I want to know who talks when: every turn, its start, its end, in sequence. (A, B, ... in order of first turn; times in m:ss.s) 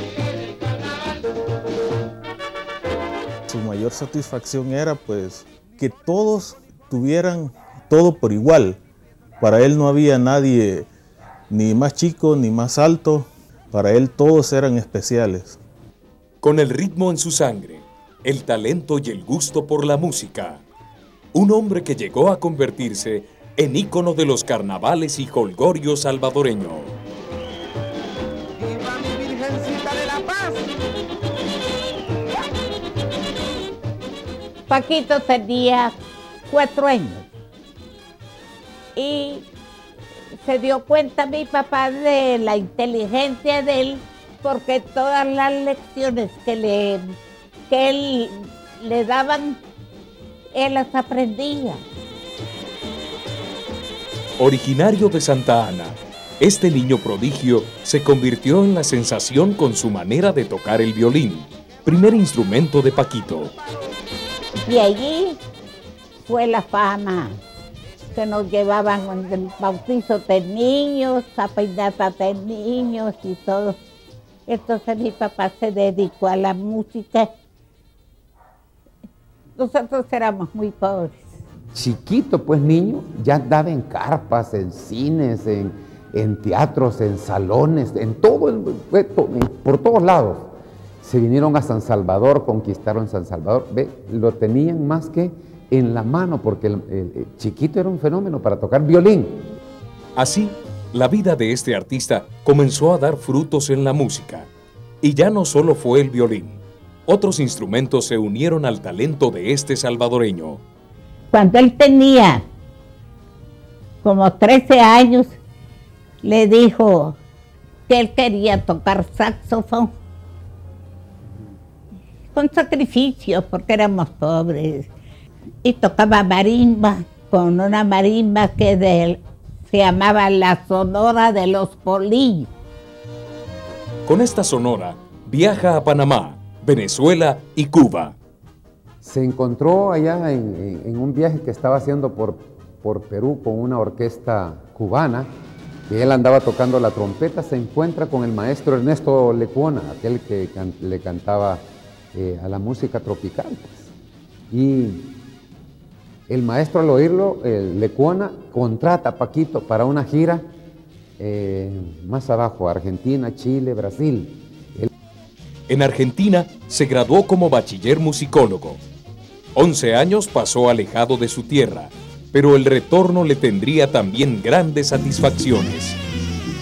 0:03.5-0:08.8 A
0:09.4-0:10.9 A
0:11.5-0:15.6 A
0:16.4-0:20.6 B
0:21.3-0:27.0 B
0:28.6-0:30.7 C
0:34.7-0:36.0 D
0:36.5-0:37.3 D
0:39.0-0:39.4 D
0:40.4-0:47.1 D
0:47.7-0:49.6 D
0:50.5-0:51.8 D
0:54.4-1:03.5 B
1:04.7-1:05.4 D
1:06.2-1:07.4 D
1:08.1-1:13.8 D
1:14.5-1:17.3 D
1:19.6-1:21.2 D
1:21.7-1:30.5 E
1:31.0-1:39.4 E
1:40.2-1:44.5 B
1:45.0-1:50.6 B
1:51.3-1:52.4 D
1:54.0-1:55.4 D
1:56.2-1:57.2 D
1:57.9-1:59.9 D
2:02.3-2:04.9 D
2:05.6-2:12.5 D
2:14.1-2:18.2 B
2:19.0-2:25.3 E
2:25.9-2:31.6 E
2:32.1-2:33.9 E
2:34.5-2:35.1 E
2:36.3-2:40.4 E
2:41.2-2:44.9 E
2:45.7-2:48.8 B
2:49.6-2:56.0 B